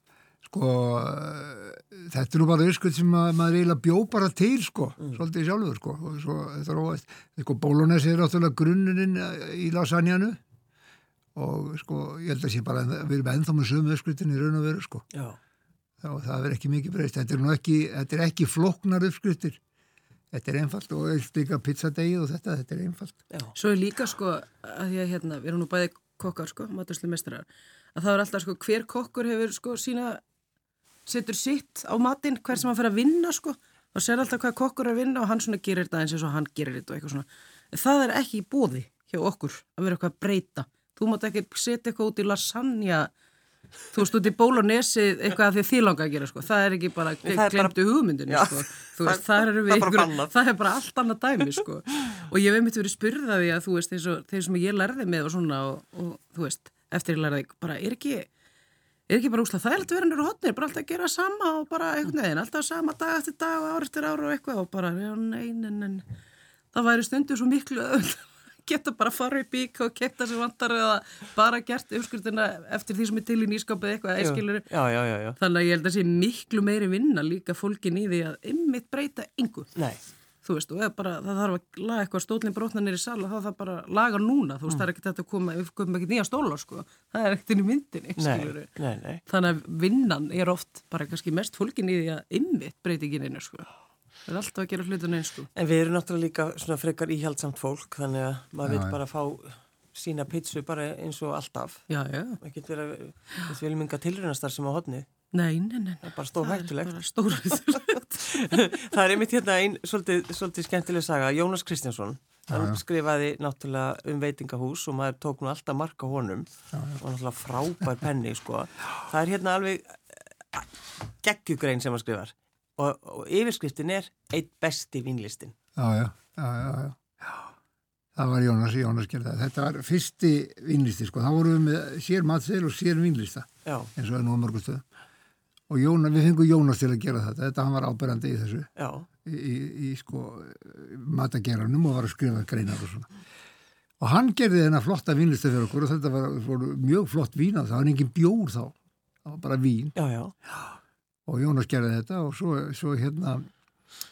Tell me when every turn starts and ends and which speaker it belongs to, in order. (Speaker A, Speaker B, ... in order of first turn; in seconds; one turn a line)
Speaker A: 0.5-10.4
Speaker A: 11.3-15.1
Speaker B: 15.1-15.4
Speaker A: 16.0-19.6
Speaker A: 20.3-23.2
Speaker C: 23.6-30.2
Speaker C: 31.1-43.1
Speaker C: 43.9-58.3
Speaker B: 47.2-47.8
Speaker B: 48.3-50.3
Speaker C: 59.1-66.0
Speaker C: 66.7-74.7
Speaker B: 74.2-75.4
Speaker C: 75.4-79.7
Speaker C: 80.4-88.7
Speaker B: 88.2-89.2
Speaker C: 89.3-93.7
Speaker C: 94.3-95.5
Speaker B: 95.5-101.9
Speaker A: 98.6-99.0
Speaker C: 101.9-102.4
Speaker B: 102.4-105.1
Speaker C: 105.3-108.4
Speaker B: 106.0-107.0
Speaker B: 108.2-116.5
Speaker A: 112.5-112.8
Speaker A: 116.7-117.0
Speaker B: 117.0-120.7
Speaker B: 121.2-125.6
Speaker A: 125.8-127.5
Speaker A: 128.2-134.8
Speaker B: 133.7-133.9
Speaker A: 135.7-138.7
Speaker B: 138.8-139.1
Speaker A: 139.2-143.1
Speaker A: 144.0-150.0
Speaker B: 150.0-150.3
Speaker A: 151.3-153.5